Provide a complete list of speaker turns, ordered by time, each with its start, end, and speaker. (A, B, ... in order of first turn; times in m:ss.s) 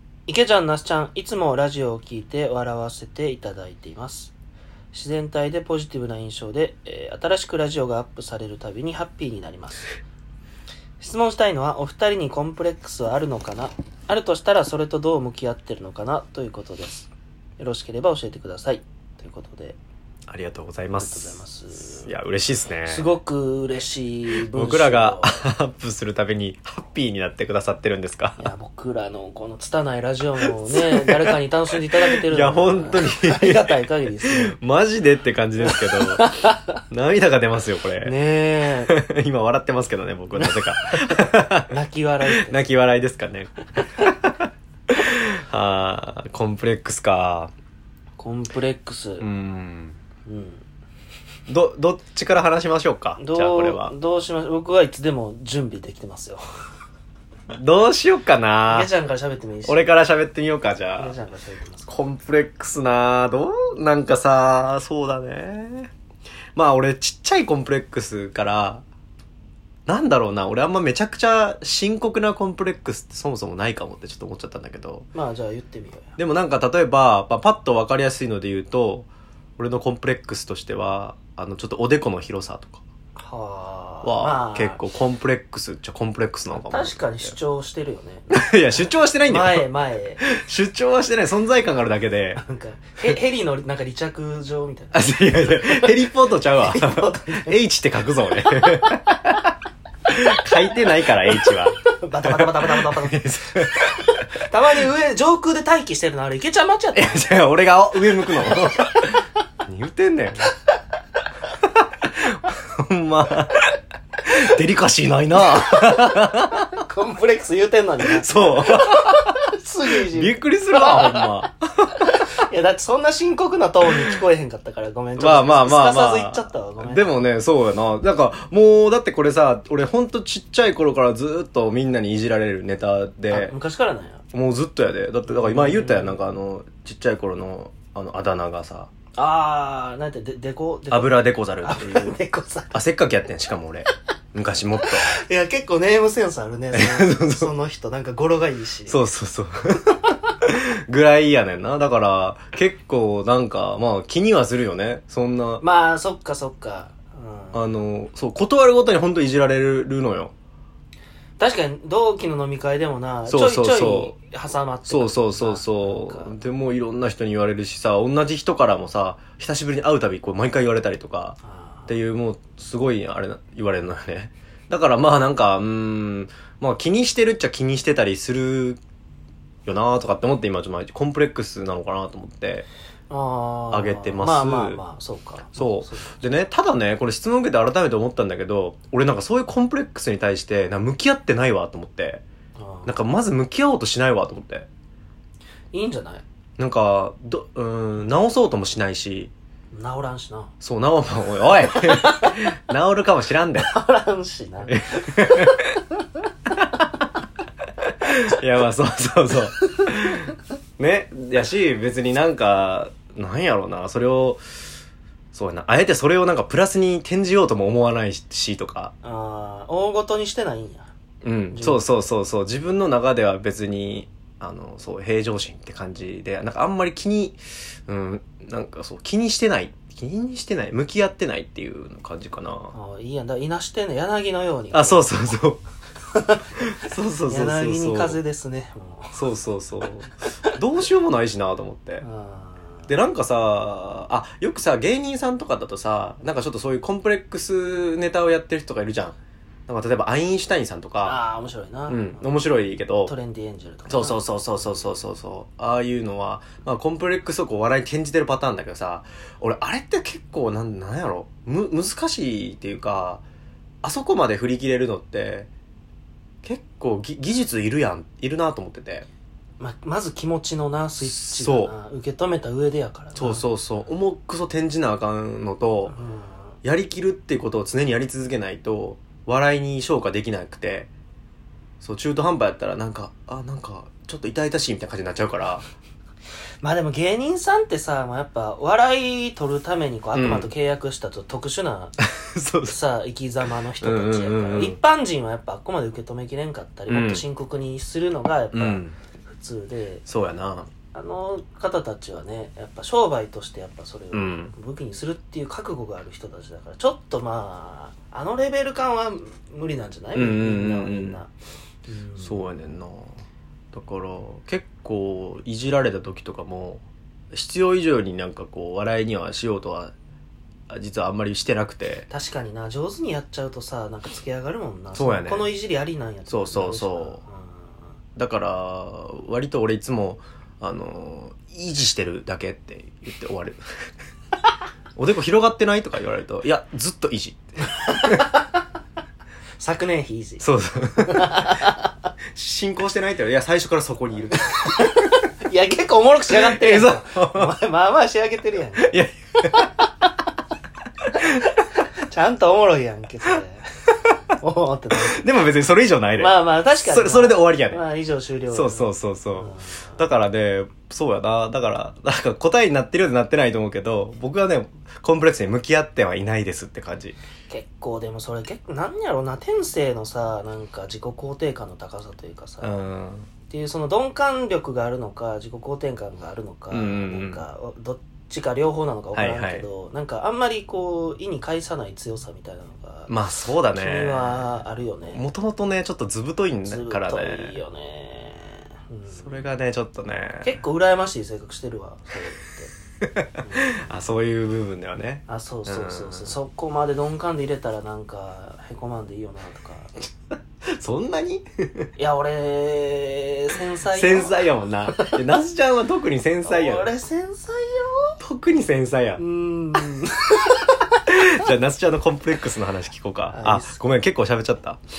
0:00.3-0:04.3 A
0:04.9-0:09.9 A
0:11.0-0:19.8 A
0:20.3-0:21.4 B
0:21.0-0:22.2 A
0:21.9-0:23.1 B
0:22.9-0:25.4 A
0:24.3-0:28.5 B
0:28.4-0:34.6 A
0:30.7-0:31.3 B
0:32.2-0:36.3 B
0:35.7-0:36.8 A
0:36.9-0:38.1 B
0:38.0-0:39.0 A
0:38.9-0:41.7 B
0:40.4-0:42.6 A
0:42.3-0:47.5 B
0:48.2-0:49.3 A
0:49.2-0:50.0 B
0:50.3-0:50.6 A
0:51.5-0:53.9 B
0:53.2-0:56.4 A
0:57.5-0:58.9 B
0:58.7-0:59.8 A
0:59.7-1:01.2 B
1:01.0-1:01.9 A
1:01.9-1:05.9 B
1:06.6-1:08.8 B
1:09.9-1:15.1 B
1:15.1-1:16.1 A
1:16.2-1:22.8 B
1:23.2-1:24.8 A
1:24.0-1:27.4 B
1:26.5-1:28.3 A
1:28.3-1:29.7 B
1:28.8-1:30.2 A
1:30.2-1:32.4 B
1:32.4-1:37.6 A
1:34.9-1:39.4 B
1:40.1-1:43.9 B
1:41.4-1:43.7 A
1:44.3-1:47.4 A
1:47.0-1:50.5 B
1:51.8-1:53.7 B
1:54.2-1:56.7 B
1:55.6-2:07.1 A
1:58.0-1:59.4 B
2:00.0-2:02.0 B
2:05.2-2:13.6 B
2:13.3-2:14.2 A
2:14.3-2:18.9 B
2:15.3-2:16.2 A
2:19.2-2:22.8 A
2:20.9-2:22.2 B
2:22.7-2:25.1 B
2:24.9-2:29.0 A
2:26.7-2:27.5 B
2:28.9-2:35.6 B
2:35.6-2:37.7 A
2:37.5-2:40.3 B
2:41.4-2:46.4 A
2:43.3-2:44.2 B
2:44.9-2:58.8 B
2:51.4-2:52.0 A
2:59.6-3:02.7 B
3:03.1-3:06.3 A
3:03.7-3:04.8 B
3:05.6-3:12.2 B
3:12.6-3:13.0 A
3:12.9-3:14.7 B
3:15.7-3:16.2 A
3:16.6-3:19.3 B
3:19.7-3:20.5 A
3:20.6-3:23.7 B
3:21.6-3:22.5 A
3:23.6-3:26.2 A
3:24.7-3:25.8 B
3:28.0-3:34.4 B
3:35.3-3:38.9 B
3:39.0-3:40.9 A
3:41.2-3:52.8 B
3:41.5-3:41.9 A
3:52.7-3:55.1 A
3:54.7-3:55.6 B
3:56.1-3:59.2 A
3:56.6-3:58.2 B
3:59.2-4:02.0 B
4:02.0-4:02.9 A
4:02.9-4:09.2 B
4:09.7-4:11.2 B
4:11.0-4:12.2 A
4:11.9-4:13.1 B
4:13.1-4:14.8 A
4:13.9-4:23.2 B
4:23.8-4:25.5 B
4:26.4-4:29.1 B
4:29.6-4:33.4 A
4:31.0-4:31.7 B
4:33.2-4:36.0 B
4:35.9-4:36.6 A
4:36.6-4:40.9 B
4:41.8-4:45.7 B
4:46.6-4:51.9 A
4:50.1-4:50.5 B
4:52.0-4:52.8 B
4:52.6-5:00.0 A
4:53.8-4:54.8 B
4:56.9-4:57.2 B
4:58.5-4:59.0 B
5:00.1-5:00.7 B
5:00.9-5:11.3 A
5:04.1-5:04.5 B
5:10.2-5:11.2 B
5:11.9-5:12.5 A
5:12.2-5:13.2 B
5:13.7-5:19.9 B
5:20.7-5:22.1 B
5:22.1-5:27.8 A
5:24.9-5:25.5 B
5:26.3-5:27.2 B
5:28.2-5:33.6 B
5:35.0-5:37.4 B
5:37.8-5:38.6 A
5:37.9-5:38.2 B
5:39.6-5:41.9 A
5:40.4-5:41.5 B
5:42.4-5:44.9 B
5:44.5-5:50.1 A
5:46.3-5:47.5 B
5:48.8-5:49.6 B
5:51.2-5:55.2 A
5:55.0-5:57.8 B
5:56.2-6:00.0 A
5:58.5-6:07.2 B
6:07.5-6:12.8 A
6:12.6-6:13.3 B
6:13.5-6:23.1 A
6:16.7-6:17.4 B
6:19.1-6:19.7 B
6:23.1-6:24.6 B
6:23.7-6:25.2 A
6:25.1-6:27.6 B
6:26.7-6:29.5 A
6:29.1-6:30.6 B
6:30.4-6:32.7 A
6:33.0-6:36.4 B
6:33.4-6:33.8 A
6:35.3-6:39.9 A
6:40.7-6:41.9 B
6:42.0-6:45.2 A
6:43.9-6:46.9 B
6:46.4-6:48.2 A
6:48.2-6:49.2 B
6:49.2-6:51.0 A
6:51.1-6:54.8 B
6:53.3-6:53.8 A